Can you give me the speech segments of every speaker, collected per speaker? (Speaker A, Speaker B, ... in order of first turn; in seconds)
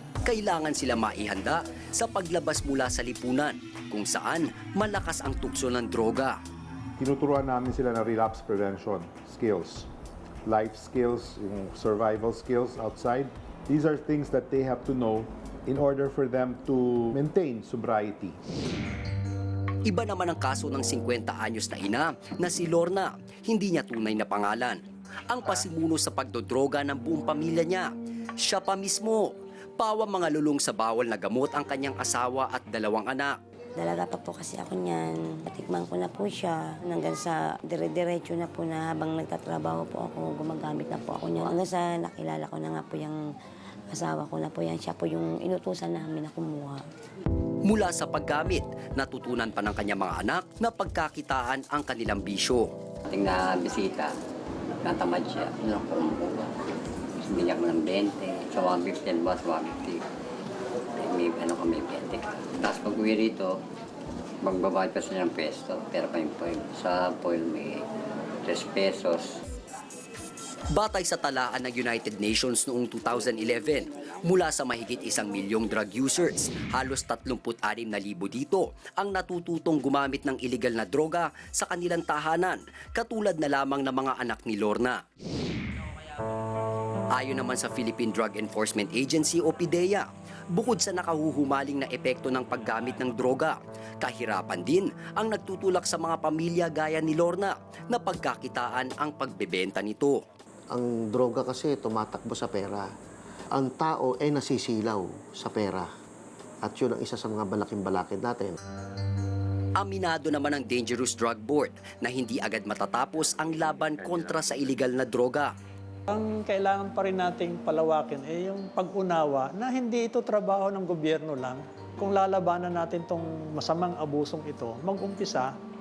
Speaker A: 0.2-6.4, 19.8-27.9, 28.4-33.4, 47.6-52.7, 70.7-85.0, 87.1-100.2, 109.8-115.5
Speaker B: 7.0-9.9, 10.4-18.4
Speaker C: 33.8-43.2, 43.9-46.8
Speaker D: 53.1-54.1, 54.8-56.5, 57.2-60.0, 61.0-63.6, 64.4-67.8, 68.4-69.4
Speaker E: 100.7-102.9, 103.5-105.9, 106.6-108.6
Speaker F: 116.1-125.5